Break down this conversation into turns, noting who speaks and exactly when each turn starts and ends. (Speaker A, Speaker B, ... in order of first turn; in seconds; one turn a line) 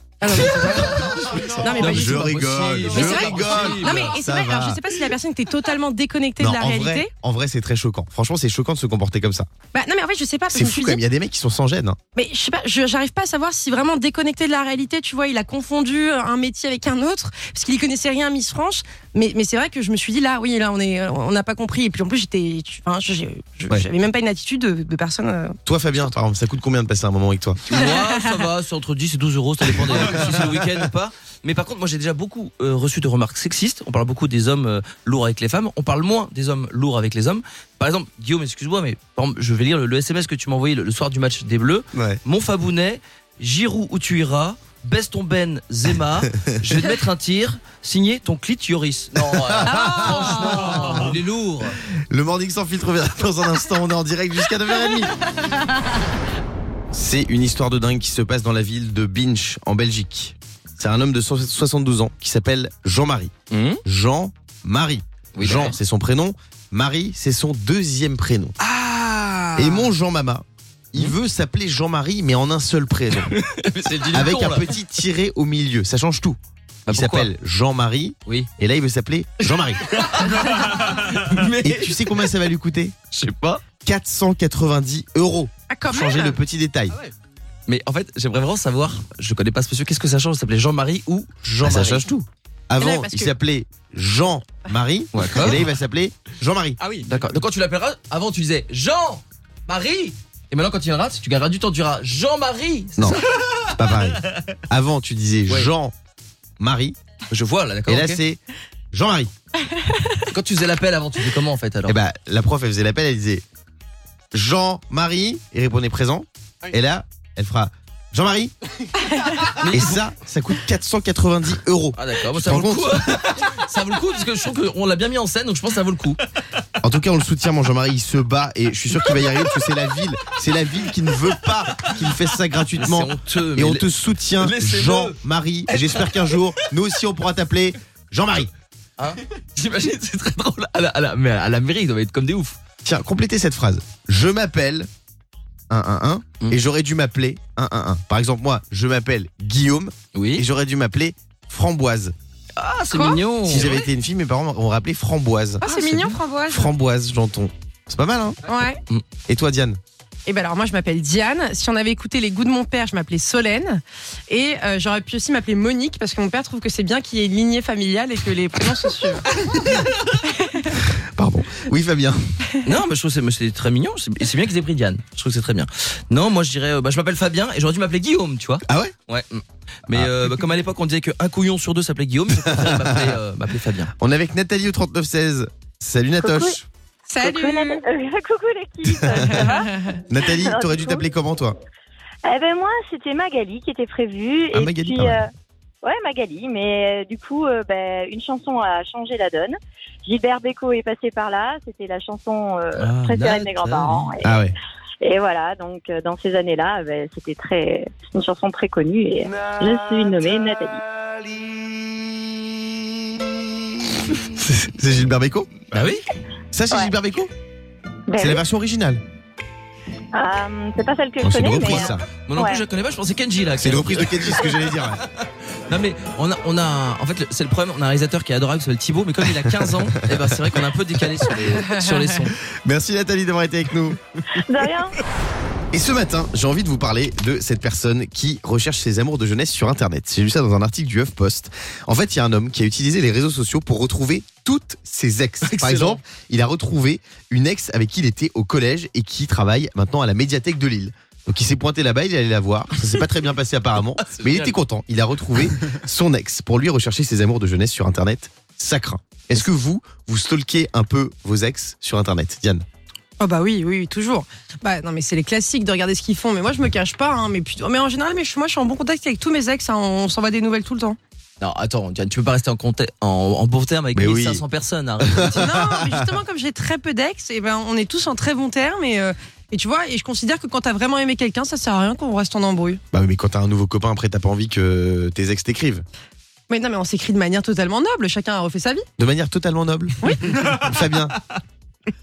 Speaker A: 0.2-2.4
Speaker B: 1.1-4.1
Speaker C: 1.4-4.8
Speaker A: 2.9-7.1
Speaker C: 6.4-9.5
Speaker A: 9.7-11.0
Speaker C: 10.5-12.0
Speaker A: 12.1-25.6
Speaker C: 25.7-27.6
Speaker B: 27.7-51.8
Speaker C: 41.9-42.2
Speaker C: 46.3-46.9
Speaker C: 49.4-51.2
Speaker A: 49.7-50.9
Speaker C: 51.9-55.1
Speaker A: 55.4-55.8
Speaker C: 56.9-63.3
Speaker B: 63.5-63.8
Speaker C: 63.9-68.5
Speaker B: 65.3-65.8
Speaker B: 68.6-69.9
Speaker C: 69.6-73.3
Speaker B: 73.2-74.8
Speaker C: 74.1-76.4
Speaker B: 76.9-77.3
Speaker C: 76.9-79.9
Speaker B: 79.5-82.3
Speaker C: 81.6-83.0
Speaker B: 83.1-83.6
Speaker C: 83.8-87.0
Speaker A: 85.7-86.4
Speaker B: 87.7-92.0
Speaker C: 91.4-96.8
Speaker A: 92.8-93.3
Speaker B: 95.1-95.6
Speaker B: 97.0-103.4
Speaker C: 103.8-105.9
Speaker C: 106.6-107.0
Speaker B: 107.3-108.2
Speaker C: 107.9-108.4
Speaker C: 108.9-109.3
Speaker B: 110.3-112.0
Speaker C: 111.9-113.4
Speaker C: 114.3-118.5
Speaker B: 119.6-120.0
Speaker C: 119.6-123.3
Speaker B: 122.0-126.2
Speaker C: 126.8-138.5
Speaker B: 132.8-136.7
Speaker B: 139.0-142.6
Speaker C: 142.8-144.9
Speaker C: 145.7-152.2
Speaker B: 150.2-150.4
Speaker B: 152.6-153.9
Speaker A: 152.9-153.2
Speaker C: 153.4-155.7
Speaker A: 155.6-156.7
Speaker B: 155.7-156.1
Speaker C: 156.5-158.4
Speaker A: 158.5-158.8
Speaker C: 159.3-159.8
Speaker A: 160.3-169.3
Speaker A: 170.1-170.8
Speaker C: 170.8-172.4
Speaker B: 172.6-183.9
Speaker C: 178.7-178.9
Speaker C: 182.4-183.2
Speaker C: 184.0-186.7
Speaker D: 186.3-186.6
Speaker A: 187.1-187.8
Speaker D: 187.2-191.1
Speaker C: 189.0-189.5
Speaker C: 190.1-191.6
Speaker D: 192.2-195.3
Speaker C: 194.5-195.2
Speaker D: 195.8-204.5
Speaker B: 202.8-204.1
Speaker C: 204.2-204.5
Speaker D: 205.0-210.8
Speaker C: 214.2-215.5
Speaker B: 215.7-216.1
Speaker C: 216.5-217.3
Speaker D: 218.1-218.4
Speaker C: 218.2-219.0
Speaker D: 220.1-222.6
Speaker C: 221.2-222.1
Speaker B: 222.1-232.4
Speaker C: 223.6-225.0
Speaker C: 232.6-234.0
Speaker D: 234.3-235.0
Speaker C: 235.7-262.6
Speaker B: 245.4-246.0
Speaker B: 254.0-254.6
Speaker A: 263.2-271.0
Speaker B: 271.4-275.5
Speaker C: 273.9-274.4
Speaker C: 275.1-275.9
Speaker A: 275.3-282.8
Speaker C: 282.9-285.9
Speaker A: 286.5-288.9
Speaker C: 289.0-291.2
Speaker A: 290.0-290.3